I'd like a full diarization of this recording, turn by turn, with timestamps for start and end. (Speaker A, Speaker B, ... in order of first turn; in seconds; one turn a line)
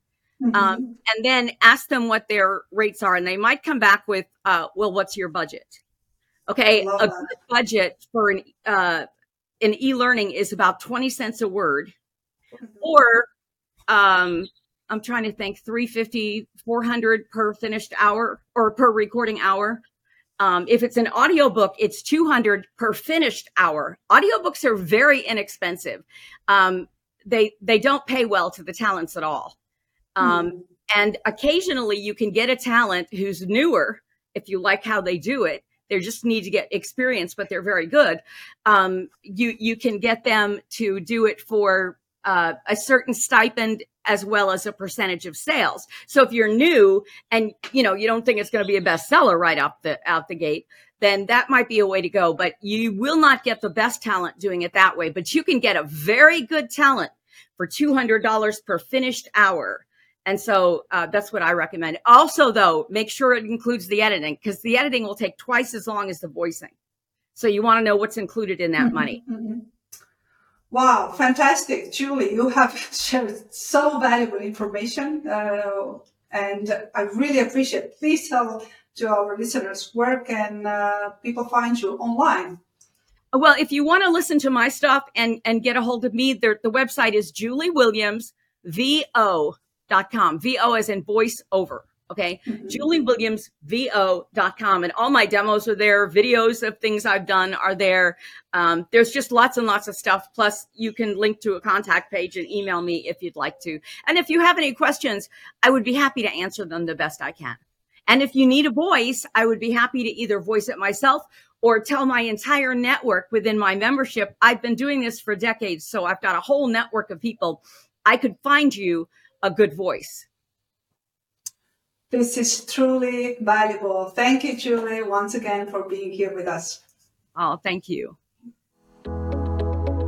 Speaker A: 0.4-0.9
Speaker B: 0.5-5.8
Speaker B: 6.5-9.0
Speaker A: 6.8-7.3
Speaker B: 9.6-11.9
Speaker B: 12.8-13.3
Speaker B: 13.9-19.8
Speaker B: 20.4-29.6
Speaker B: 30.1-66.7
Speaker A: 30.2-30.5
Speaker B: 67.3-69.2
Speaker A: 68.8-69.6
Speaker A: 70.7-82.6
Speaker B: 83.3-120.3
Speaker A: 92.5-92.8
Speaker A: 122.1-126.8
Speaker B: 127.3-128.2